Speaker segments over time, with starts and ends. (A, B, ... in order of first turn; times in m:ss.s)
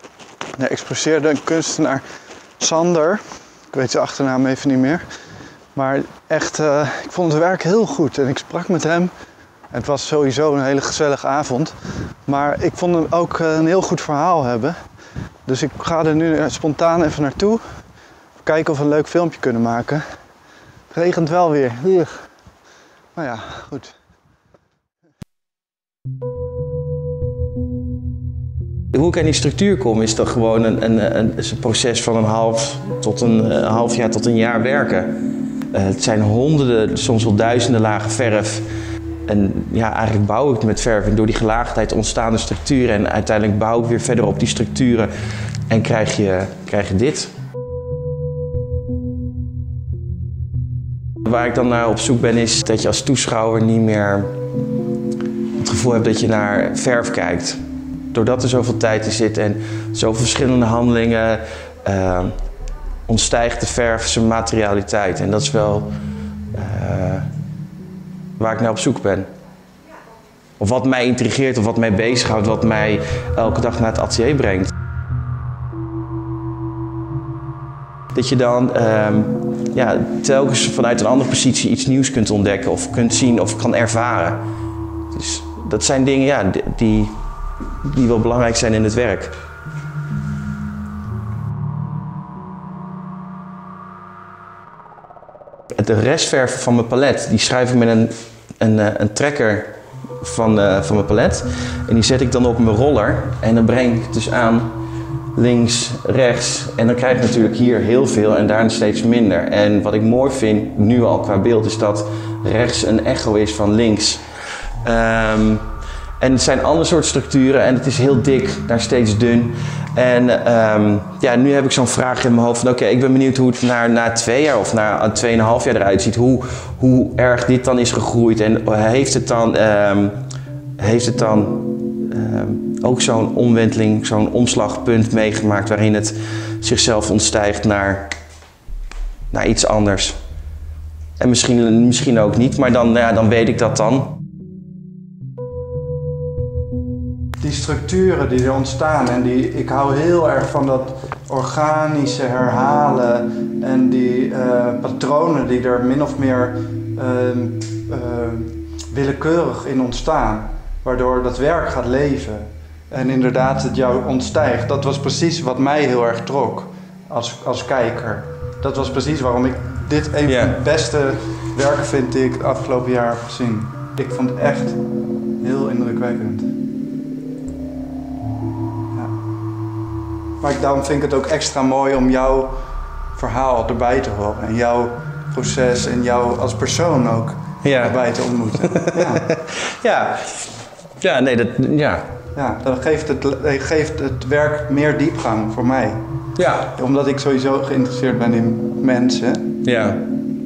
0:00.6-0:02.0 A
0:02.6-0:05.0 A
0:05.8-0:09.1 A
0:09.7-0:11.7 A
0:12.3-0:14.8 A
0:15.5-0:17.6 A
0:18.4-0:20.0 A
0:20.9-0:22.2 A
0:23.2-0:24.0 A
0:28.9-0:35.1 B
0:35.7-0:38.7 B
0:39.3-0:45.1 B
0:45.7-0:47.3 B
0:51.2-0:54.3 B
0:55.6-0:57.6 B
0:58.1-1:02.3 B
1:03.1-1:05.9 B
1:06.5-1:07.3 B
1:08.4-1:09.3 B
1:10.6-1:14.7 B
1:18.1-1:24.4 B
1:25.1-1:27.2 B
1:27.8-1:29.3 B
1:35.8-1:44.7 B
1:45.4-1:54.2 B
1:54.8-1:55.6 B
1:56.2-2:10.2 B
2:10.8-2:18.1 B
2:19.3-2:20.2 B
2:21.2-2:24.1 B
2:27.4-2:54.8 A
2:50.3-2:50.5 B
2:55.4-2:56.5 A
3:00.4-3:02.6 A
3:03.2-3:09.3 A
3:07.6-3:08.1 B
3:08.6-3:12.0 B
3:12.3-3:16.0 A
3:16.4-3:16.7 B
3:16.8-3:19.5 A
3:19.6-3:20.0 B